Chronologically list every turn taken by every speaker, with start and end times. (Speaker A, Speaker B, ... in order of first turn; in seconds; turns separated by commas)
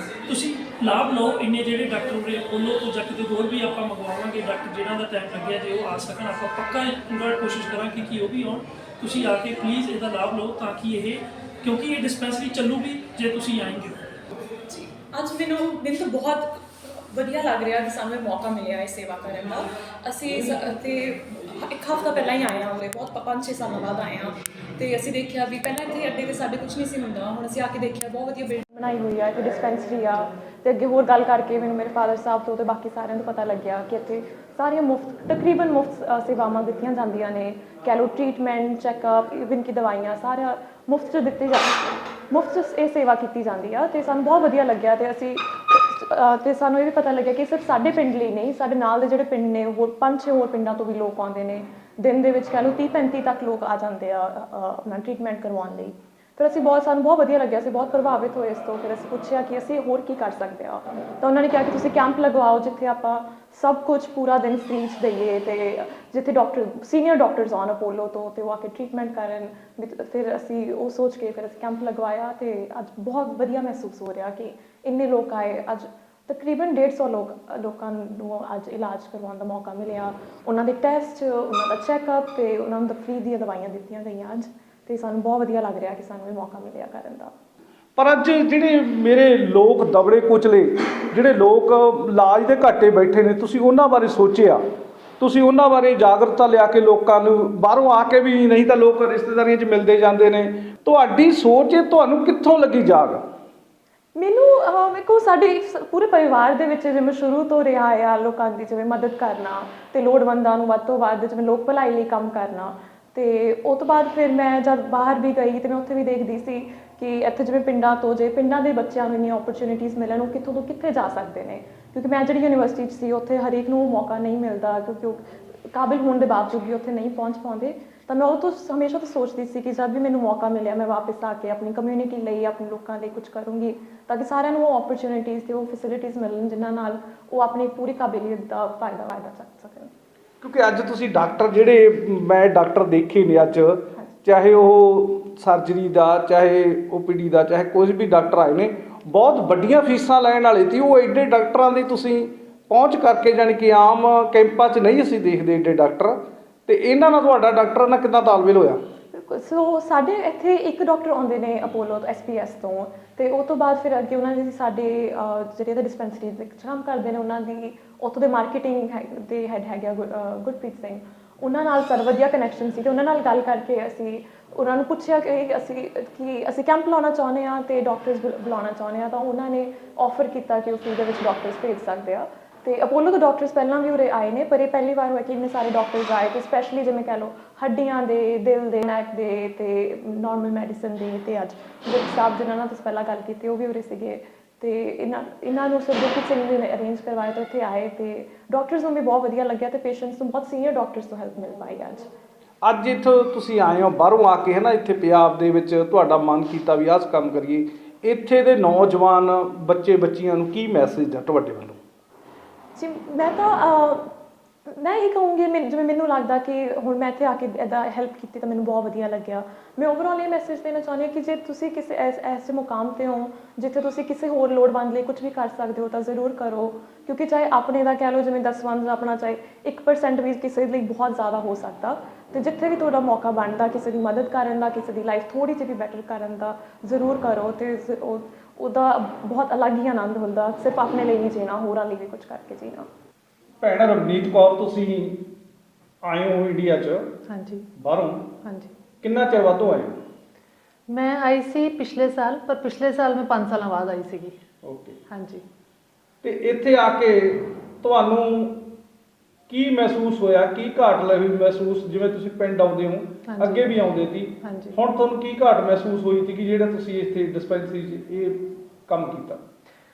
Speaker A: 0.2-14.0, Speaker B: 14.7-87.3, Speaker C: 88.0-94.6, Speaker C: 95.2-103.2, Speaker B: 104.2-139.9, Speaker C: 140.4-158.8, Speaker B: 159.1-202.1, Speaker C: 202.6-211.8, Speaker B: 212.8-214.1, Speaker B: 214.7-242.9, Speaker C: 243.6-245.3, Speaker C: 246.0-247.2, Speaker D: 247.3-247.7, Speaker C: 247.8-248.3, Speaker D: 248.4-248.7, Speaker C: 249.0-250.0, Speaker D: 250.9-254.4, Speaker C: 254.6-254.9, Speaker D: 255.1-255.4, Speaker C: 256.2-258.7, Speaker C: 259.5-269.4, Speaker D: 263.3-263.9, Speaker D: 264.4-264.8